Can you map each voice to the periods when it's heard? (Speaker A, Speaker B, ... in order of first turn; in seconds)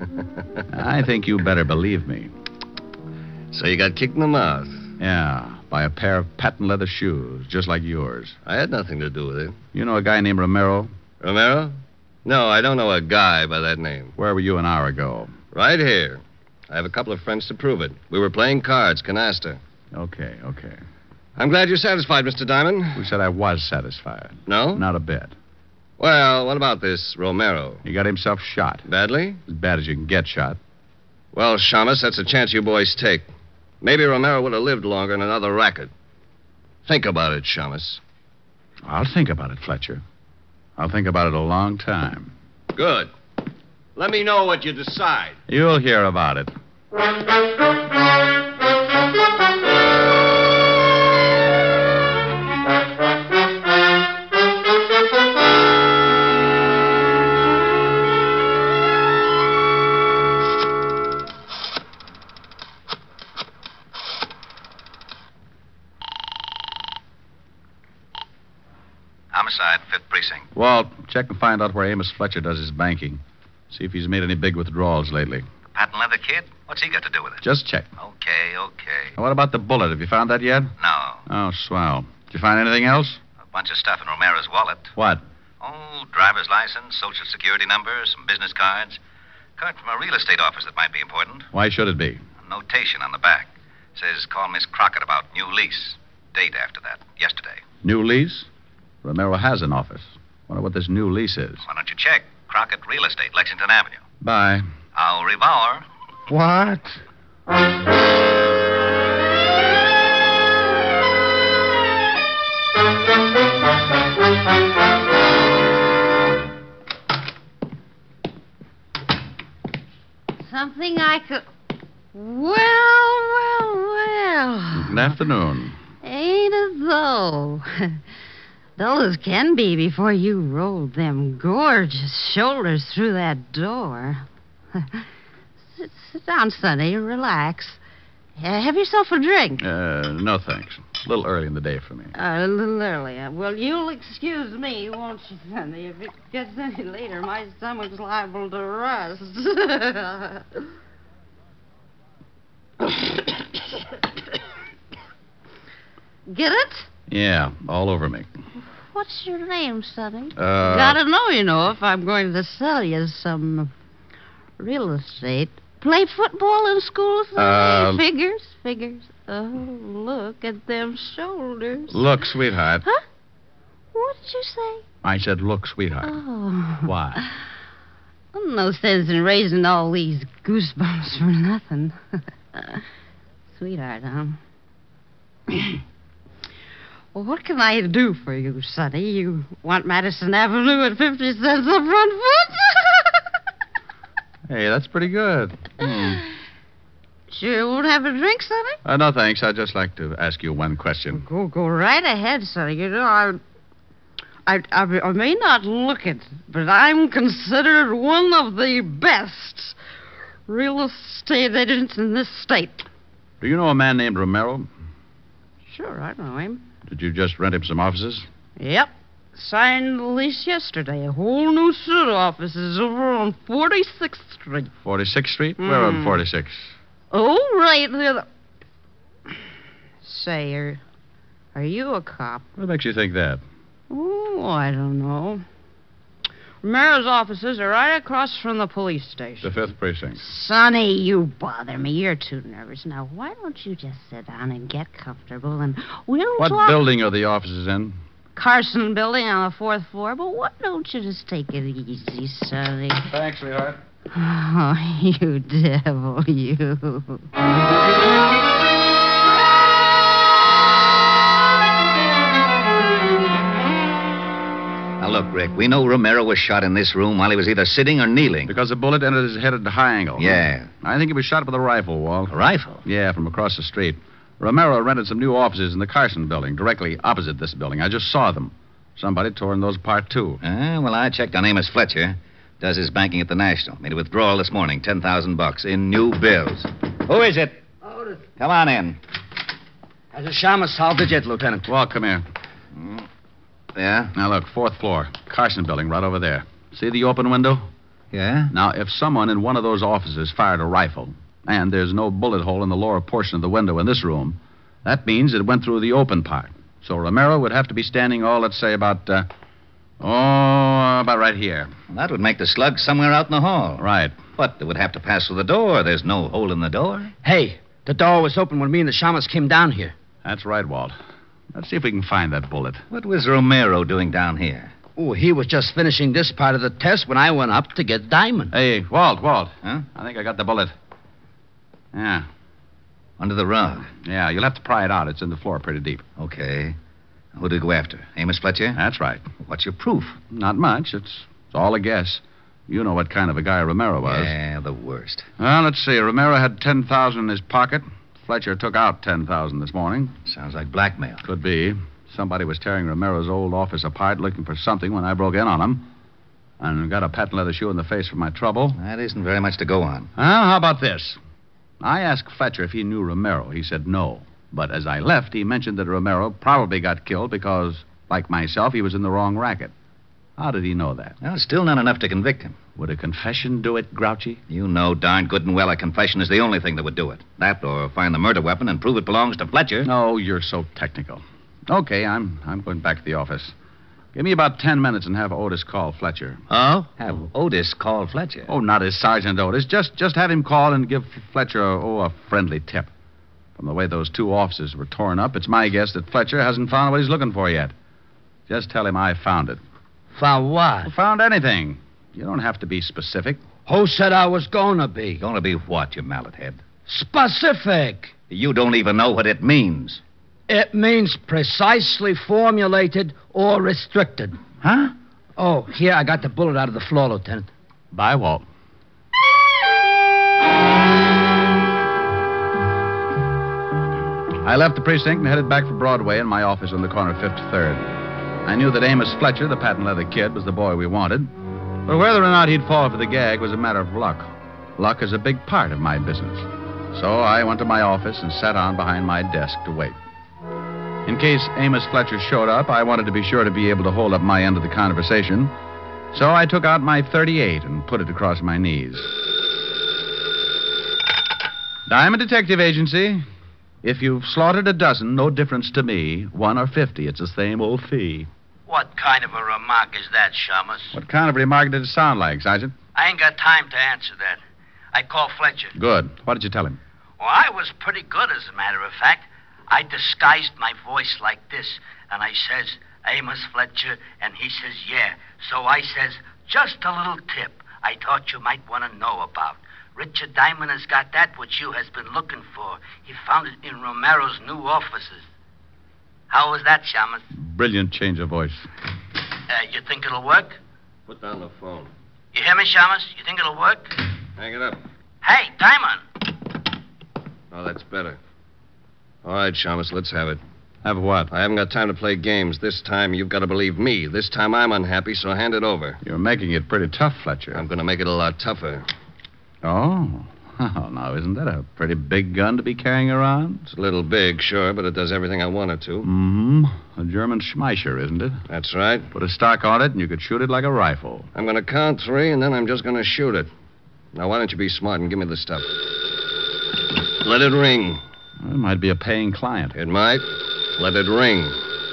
Speaker A: 0.7-2.3, 5.0-8.3, 9.7-10.9, 14.2-15.3, 19.9-20.8, 22.9-25.3, 27.8-28.9, 29.4-30.6, 38.8-40.0, 40.8-42.3, 45.5-46.5, 70.5-75.5, 77.4-77.9, 79.2-80.7, 81.3-83.2, 85.0-85.2, 91.5-92.2, 97.8-98.5, 99.0-101.6, 104.2-104.6, 106.3-106.9, 124.7-125.8, 139.6-142.1, 157.1-158.3, 160.3-161.0, 167.4-168.0, 171.9-172.8, 175.0-176.2, 176.8-177.2, 194.5-196.2, 198.8-201.2, 213.4-214.7, 216.8-218.3, 224.8-226.7, 232.6-233.4, 239.4-240.2, 246.4-248.0, 253.1-253.8, 268.5-272.3, 272.8-280.4, 291.7-292.2, 294.1-297.7, 298.5-309.3, 310.0-311.7, 313.8-314.2, 320.2-320.9, 321.5-322.8, 328.5-330.7, 331.9-332.3, 333.9-336.0, 338.7-339.3, 340.3-344.3, 345.4-350.1, 351.2-355.9, 356.6-358.8, 360.1-361.2, 361.8-369.7, 370.4-371.2, 372.8-374.4, 379.8-383.5, 384.1-386.4, 388.5-392.9, 393.6-397.7, 398.5-399.6, 400.9-403.4, 417.9-418.4, 424.4-427.9, 428.4-431.3, 431.8-439.9, 441.1-445.5, 446.1-449.1, 451.9-453.2, 453.8-458.3, 460.9-462.7, 465.7-466.8, 487.3-488.7, 500.8-501.3, 506.0-507.6, 509.6-513.6, 516.0-518.4, 519.1-521.3, 528.4-529.7
Speaker B: 3.5-4.9, 8.4-9.6, 11.2-11.7, 12.2-14.1, 15.5-19.6, 21.4-23.0, 24.5-24.8, 26.0-27.8, 28.9-29.4, 31.3-33.3, 33.8-35.9, 36.9-38.0, 42.7-43.1, 44.0-45.4, 491.1-491.9, 494.4-494.8, 497.5-498.2, 499.2-500.4, 501.3-506.0, 507.5-508.8, 513.7-516.1, 518.5-519.1, 521.3-523.5, 524.1-525.8, 527.1-528.0, 529.7-531.6
Speaker C: 69.3-70.5, 75.7-77.4, 78.0-79.2, 80.8-81.2, 83.5-84.9, 85.6-89.0, 89.6-91.5, 92.4-97.6, 101.7-104.0, 104.9-105.8, 265.0-268.5, 270.2-270.7, 272.3-272.8, 280.4-287.6, 288.4-289.0, 293.7-294.1, 298.1-298.5, 311.9-317.1, 322.9-324.7, 333.2-333.9, 336.2-336.8, 337.3-338.8, 339.4-340.2, 344.1-345.3, 350.2-351.2, 358.7-360.1, 371.2-372.6, 374.5-379.9, 386.5-388.5, 405.2-406.6, 408.3-410.0, 414.6-414.9
Speaker D: 120.4-121.4, 122.1-125.1, 126.0-128.0, 128.8-134.2, 134.8-135.0, 135.7-137.8, 138.4-139.6, 142.1-150.6, 156.3-156.9, 158.9-163.7, 164.6-172.0, 173.9-174.8, 176.0-177.2, 178.3-182.0, 182.5-182.8, 183.5-184.4, 187.1-193.2, 195.9-196.1, 197.3-198.8, 201.1-203.4, 204.4-209.8, 210.5-212.8, 215.7-216.6, 218.6-224.7, 225.6-226.2, 227.1-228.2, 230.0-230.8, 231.5-232.4, 233.9-235.4, 236.6-239.5, 240.2-246.8, 248.3-253.1, 254.1-257.2
Speaker E: 290.1-291.7, 317.2-319.9, 324.9-328.5, 400.1-400.9, 403.6-405.2, 406.9-408.1, 410.5-414.4, 415.4-417.5
Speaker F: 458.7-460.7, 463.0-464.3, 465.0-465.6, 467.4-469.2, 469.7-485.1, 486.3-487.0, 489.6-490.4, 492.3-493.7, 495.3-495.7